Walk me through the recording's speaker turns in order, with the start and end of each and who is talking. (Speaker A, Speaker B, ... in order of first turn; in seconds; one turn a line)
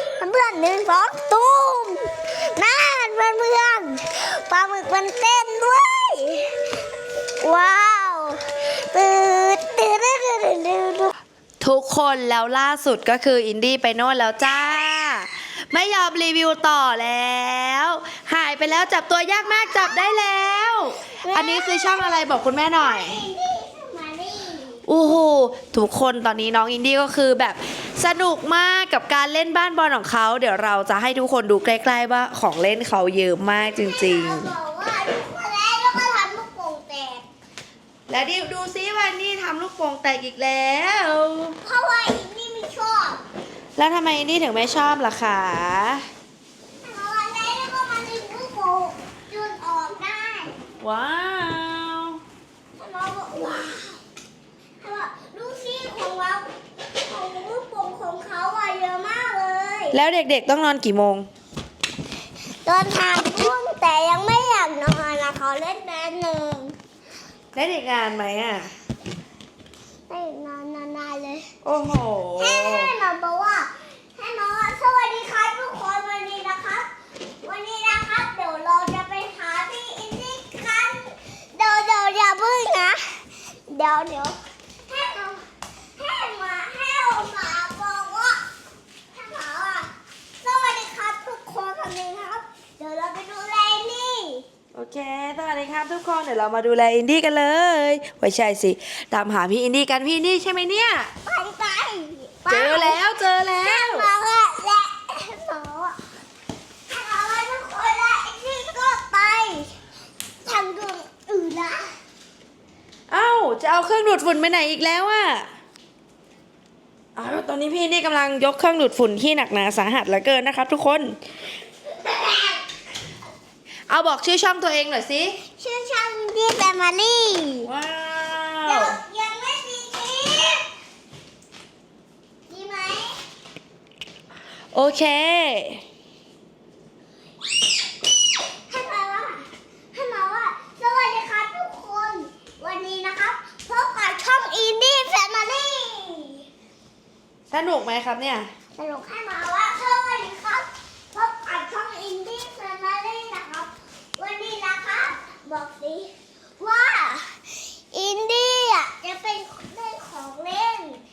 Speaker A: 0.2-6.6
Speaker A: 7.4-11.1
Speaker B: 11.6-23.2
Speaker A: 19.4-20.7
Speaker A: 21.2-24.8
Speaker B: 24.9-34.5
Speaker A: 33.7-37.2
Speaker B: 38.1-41.6
Speaker A: 41.6-43.2
Speaker B: 43.8-46.0
Speaker A: 46.8-50.6
Speaker B: 50.8-52.2
Speaker A: 52.8-54.0
Speaker A: 54.8-60.0
Speaker B: 59.9-61.3
Speaker A: 62.6-66.8
Speaker B: 67.5-68.7
Speaker A: 70.1-71.5
Speaker B: 71.6-72.9
Speaker A: 72.4-76.9
Speaker A: 77.4-85.4
Speaker A: 86.0-88.5
Speaker A: 89.1-89.9
Speaker A: 90.4-94.5
Speaker B: 94.7-101.1
Speaker A: 101.2-103.0
Speaker B: 102.5-104.1
Speaker A: 103.6-106.0
Speaker A: 106.9-109.7
Speaker A: 110.4-111.9
Speaker B: 113.1-115.5
Speaker B: 117.2-121.2
Speaker A: 121.9-122.6
Speaker B: 123.9-125.4
Speaker A: 125.6-127.7
Speaker B: 127.7-128.9
Speaker A: 128.7-130.7
Speaker A: 132.5-133.2
Speaker B: 134.7-135.8
Speaker A: 138.7-146.5
Speaker B: 147.5-148.5
Speaker A: 148.8-157.4
Speaker A: 157.9-161.0